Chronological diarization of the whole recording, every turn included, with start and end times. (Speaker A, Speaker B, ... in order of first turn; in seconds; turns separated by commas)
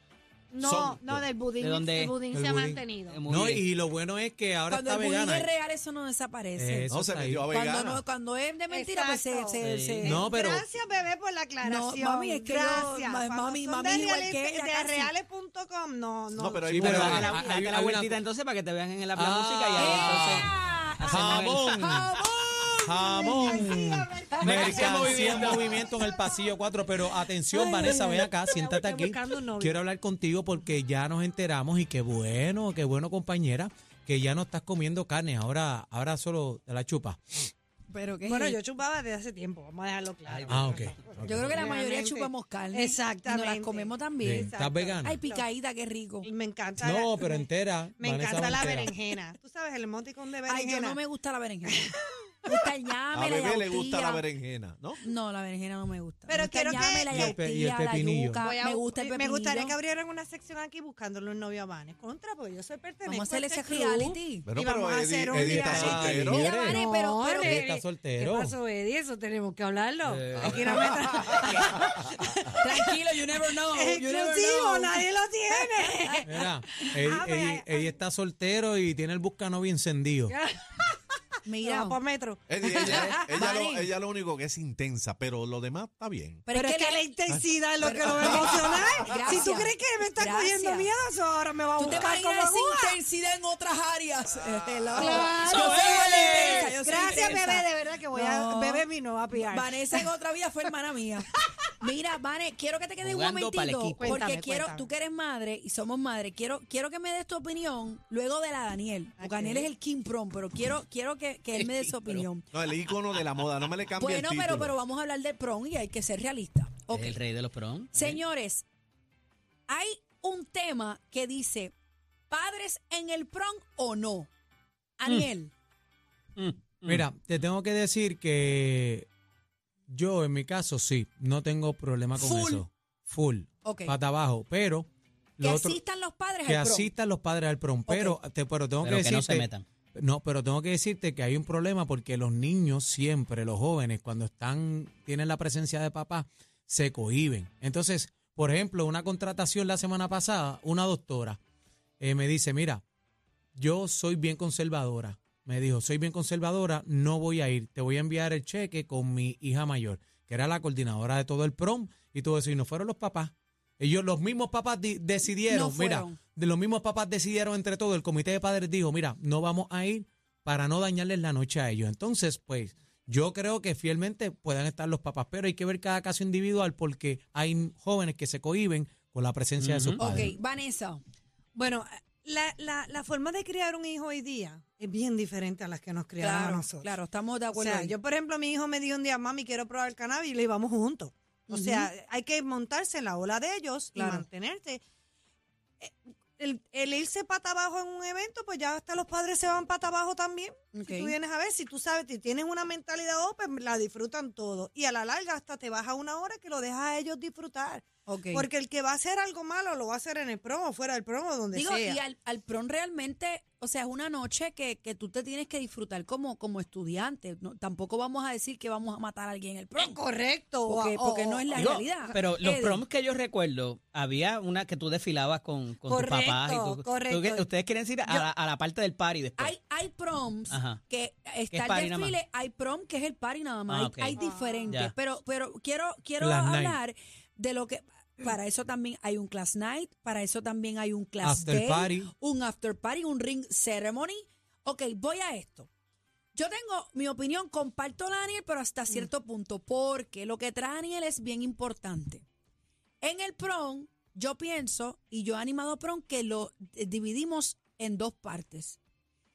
Speaker A: 0.5-3.2, Speaker B: 0.6-1.3, Speaker C: 1.6-2.2, Speaker D: 2.3-5.5, Speaker C: 3.1-3.6, Speaker E: 4.7-6.9, Speaker D: 6.6-7.5, Speaker B: 6.9-8.0, Speaker E: 7.5-9.8, Speaker A: 8.7-17.6, Speaker C: 9.6-10.2, Speaker D: 10.0-10.7, Speaker E: 11.6-15.1, Speaker B: 16.4-17.4, Speaker D: 16.7-18.2, Speaker C: 16.8-22.0, Speaker D: 19.1-20.5, Speaker E: 19.8-23.8, Speaker D: 21.1-22.1, Speaker D: 22.8-37.4, Speaker A: 23.0-26.6, Speaker C: 24.4-25.7, Speaker E: 24.4-24.9, Speaker A: 27.1-29.8, Speaker E: 37.9-38.6, Speaker A: 38.3-45.5, Speaker D: 40.4-41.6, Speaker E: 41.2-46.3, Speaker D: 44.2-45.2, Speaker A: 46.2-47.5, Speaker D: 46.8-48.9, Speaker A: 48.0-51.0, Speaker E: 50.5-51.9, Speaker A: 51.7-52.5, Speaker E: 52.5-54.2, Speaker B: 53.1-55.0, Speaker E: 55.0-59.8, Speaker A: 56.3-57.4, Speaker D: 57.1-58.4, Speaker A: 58.4-72.9, Speaker E: 63.1-64.5, Speaker B: 64.5-66.4, Speaker D: 65.3-66.8, Speaker E: 66.2-67.6, Speaker D: 67.3-68.5, Speaker D: 70.1-71.0, Speaker B: 70.5-71.4, Speaker E: 72.5-76.3, Speaker A: 73.6-78.0, Speaker D: 76.3-80.3, Speaker A: 80.3-83.3, Speaker E: 81.5-82.0, Speaker B: 82.5-86.4, Speaker E: 82.8-83.8, Speaker E: 86.5-87.1, Speaker A: 86.5-93.0, Speaker B: 87.3-89.5, Speaker E: 87.8-90.9, Speaker E: 91.8-112.5, Speaker A: 95.0-100.1, Speaker C: 95.0-97.5, Speaker C: 103.0-104.0, Speaker A: 104.0-104.9, Speaker A: 109.2-109.7, Speaker C: 111.5-112.3, Speaker B: 112.5-114.8, Speaker E: 114.0-117.2, Speaker C: 116.9-118.2, Speaker E: 117.9-118.7, Speaker E: 119.7-121.7, Speaker E: 122.3-124.3, Speaker E: 125.0-125.5, Speaker C: 126.4-127.0, Speaker D: 126.9-129.1, Speaker D: 129.9-134.9, Speaker E: 132.2-132.7, Speaker E: 133.6-133.9, Speaker D: 135.4-135.8, Speaker E: 135.4-136.9, Speaker D: 136.4-151.4, Speaker E: 137.9-138.2, Speaker C: 138.8-139.7, Speaker D: 152.0-152.8, Speaker D: 153.6-180.3, Speaker E: 165.5-166.2, Speaker C: 179.6-180.0, Speaker E: 180.0-181.0, Speaker A: 181.6-186.9, Speaker E: 186.2-187.9, Speaker A: 187.5-194.8, Speaker E: 191.5-191.9, Speaker E: 194.0-194.2, Speaker A: 195.8-212.0, Speaker E: 200.7-201.2, Speaker E: 208.1-208.4, Speaker E: 211.5-220.0, Speaker A: 219.8-221.8, Speaker E: 220.7-222.8, Speaker C: 221.6-229.5, Speaker A: 225.8-227.5, Speaker E: 229.4-245.7, Speaker C: 230.5-230.8, Speaker C: 231.5-232.2, Speaker C: 233.7-234.2, Speaker A: 234.2-234.8, Speaker D: 236.2-236.8, Speaker D: 241.2-242.1, Speaker E: 246.3-252.2, Speaker E: 253.0-258.8